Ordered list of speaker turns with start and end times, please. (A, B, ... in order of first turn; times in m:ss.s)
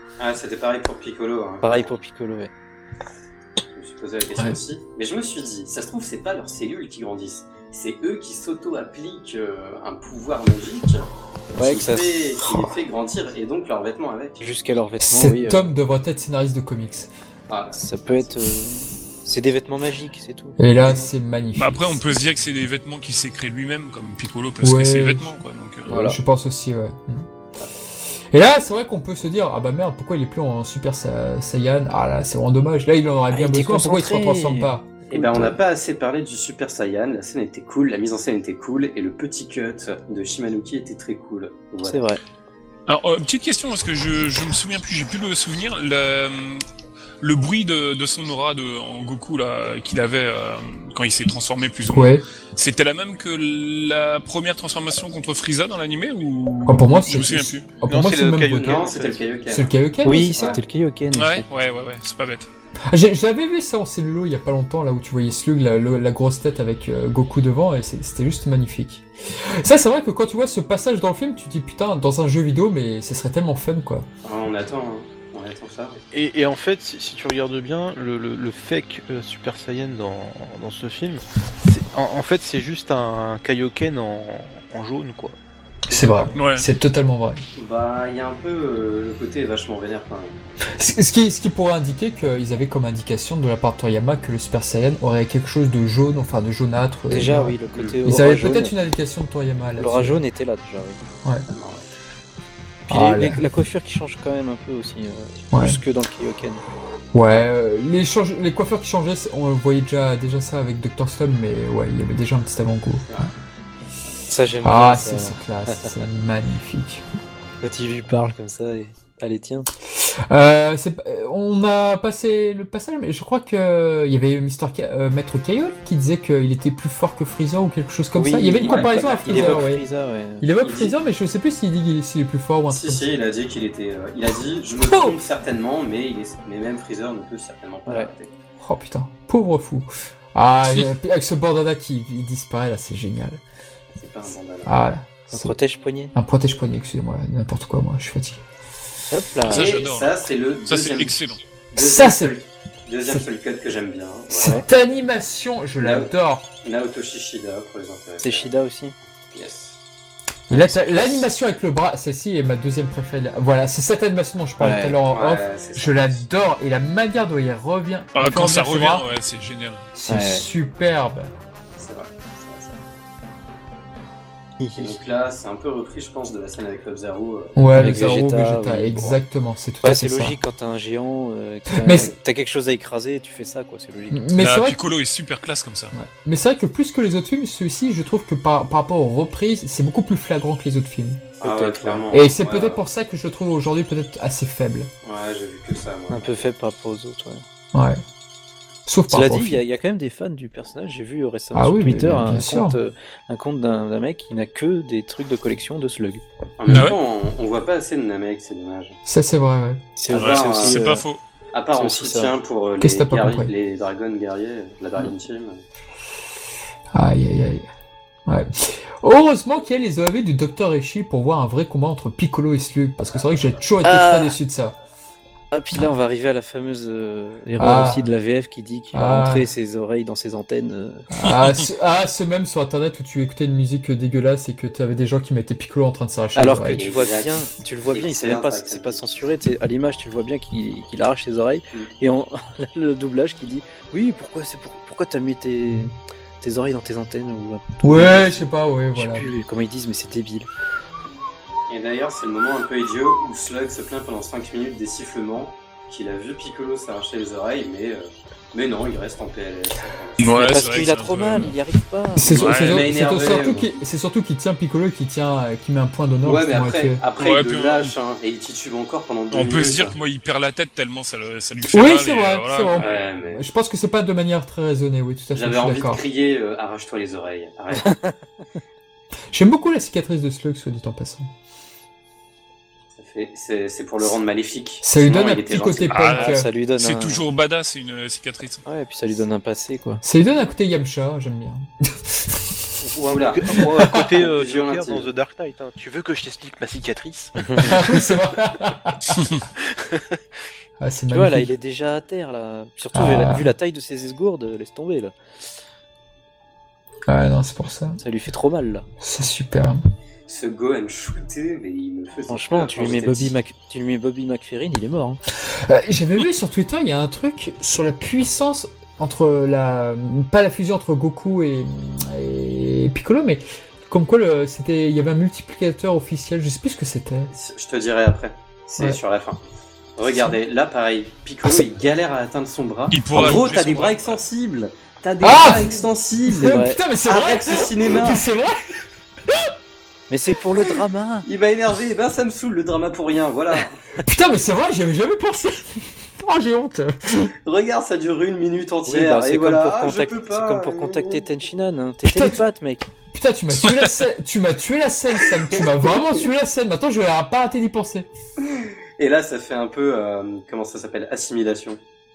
0:00.2-0:01.9 A
0:01.6-0:02.5 B
0:03.7-0:14.4 A
0:11.6-0:12.3 B
0:14.4-0:15.7 B
0:15.0-0:17.1 C
0:17.5-0:17.8 A
0:17.7-0:20.6 B
0:20.6-0:22.0 C
0:21.6-0:26.1 D
0:24.6-0:25.4 C
0:25.9-0:26.2 B
0:25.9-0:27.3 C
0:28.3-0:35.6 C
0:33.3-0:34.7 B
0:35.1-0:42.0 A
0:41.8-0:42.2 B
0:42.9-0:46.6 D
0:47.2-0:57.8 D
0:51.9-0:52.2 C
0:56.7-0:58.9 C
0:57.8-0:59.2 E
0:58.5-0:59.7 A
0:59.5-1:00.6 C
1:00.0-1:01.5 B
1:00.3-1:00.6 A
1:01.2-1:02.5 D
1:02.9-1:14.1 C
1:14.2-1:16.0 A
1:16.1-1:25.4 E
1:25.9-1:27.4 C
1:26.0-1:26.3 E
1:26.3-1:26.7 D
1:27.6-1:30.4 A
1:30.7-1:40.2 C
1:37.1-1:38.8 B
1:39.8-1:41.0 B
1:41.5-1:41.9 A
1:42.9-1:43.4 C
1:42.9-1:46.6 B
1:45.5-1:45.8 C
1:47.1-1:53.3 C
1:54.3-1:56.0 B
1:54.6-1:57.0 C
1:57.6-1:59.7 B
1:59.9-2:09.8 C
2:08.1-2:10.5 B
2:08.6-2:09.7 A
2:10.4-2:13.1 C
2:10.6-2:11.0 A
2:12.7-2:18.3 A
2:14.8-2:15.2 C
2:18.6-2:23.4 C
2:24.0-2:24.7 A
2:24.6-2:25.5 C
2:25.3-2:26.1 B
2:26.2-2:28.4 C
2:29.1-2:29.7 B
2:29.5-2:31.4 D
2:29.5-2:34.6 A
2:31.8-2:32.4 C
2:34.3-2:36.5 C
2:34.3-2:34.6 B
2:35.8-2:36.1 A
2:36.6-2:38.5 A
2:38.2-2:39.0 B
2:39.3-2:39.8 A
2:40.5-2:49.0 C
2:40.5-2:40.8 B
2:44.6-2:45.0 B
2:45.1-2:46.2 A
2:48.2-2:49.9 D
2:50.0-2:51.3 C
2:50.1-2:50.4 B
2:51.8-2:52.8 A
2:54.6-2:55.0 B
2:54.8-2:57.9 A
2:57.6-3:00.4 C
2:57.7-2:59.2 B
2:59.8-3:04.3 B
3:01.8-3:02.1 C
3:04.1-3:04.8 C
3:04.4-3:05.9 D
3:05.9-3:11.3 C
3:11.4-3:12.8 A
3:11.4-3:12.1 B
3:12.1-3:14.9 C
3:15.0-3:16.5 A
3:16.1-3:17.4 B
3:17.7-3:18.0 C
3:18.9-3:19.6 C
3:19.1-3:26.2 B
3:21.5-3:22.8 C
3:26.6-3:29.0 A
3:26.7-3:26.9 C
3:26.7-3:27.0 D
3:29.1-3:29.8 C
3:30.0-3:31.1 B
3:30.1-3:30.9 A
3:30.1-3:31.2 D
3:31.5-3:35.6 A
3:31.7-3:32.4 B
3:32.8-3:33.5 C
3:36.9-3:37.7 C
3:38.3-3:44.8 C
3:43.8-3:44.4 B
3:45.5-3:51.1 B
3:47.6-3:48.0 C
3:48.9-3:49.5 C
3:51.1-3:56.8 C
3:56.4-4:10.5 B
3:56.8-3:59.0 A
4:07.8-4:09.3 C
4:11.7-4:20.7 A
4:20.2-4:21.6 D
4:20.3-4:22.4 B
4:22.2-4:27.0 C
4:22.4-4:22.9 D
4:22.4-4:23.8 A
4:26.2-4:30.0 A
4:27.2-4:27.9 D
4:29.3-4:33.1 D
4:31.7-4:36.0 C
4:32.8-4:33.4 A
4:35.3-4:38.0 A
4:37.8-4:38.1 B
4:39.3-4:41.3 C
4:43.0-4:46.1 A
4:44.8-4:46.5 C
4:45.9-4:48.6 D
4:46.1-4:47.2 B
4:48.7-4:50.0 B
4:50.0-4:52.6 C
4:52.8-4:57.9 E
4:53.0-4:55.1 A
4:53.6-4:54.0 C
4:57.4-4:57.8 B
4:57.6-4:59.2 C
4:59.8-5:00.2 E
5:00.8-5:01.5 C
5:01.1-5:05.2 B
5:02.9-5:03.5 C
5:07.1-5:08.0 C
5:08.0-5:08.8 B
5:09.0-5:09.8 C
5:10.3-5:13.3 A
5:12.3-5:15.2 B
5:15.5-5:27.3 C
5:27.3-5:29.4 A
5:30.0-5:38.2 A
5:32.9-5:34.2 D
5:35.2-5:39.5 C
5:36.5-5:36.8 B
5:40.1-5:41.3 B
5:41.3-5:43.8 A
5:44.0-5:47.3 C
5:47.4-5:51.2 A
5:48.9-5:52.9 B
5:52.0-5:52.4 C
5:53.1-5:58.1 C
5:58.4-6:01.8 A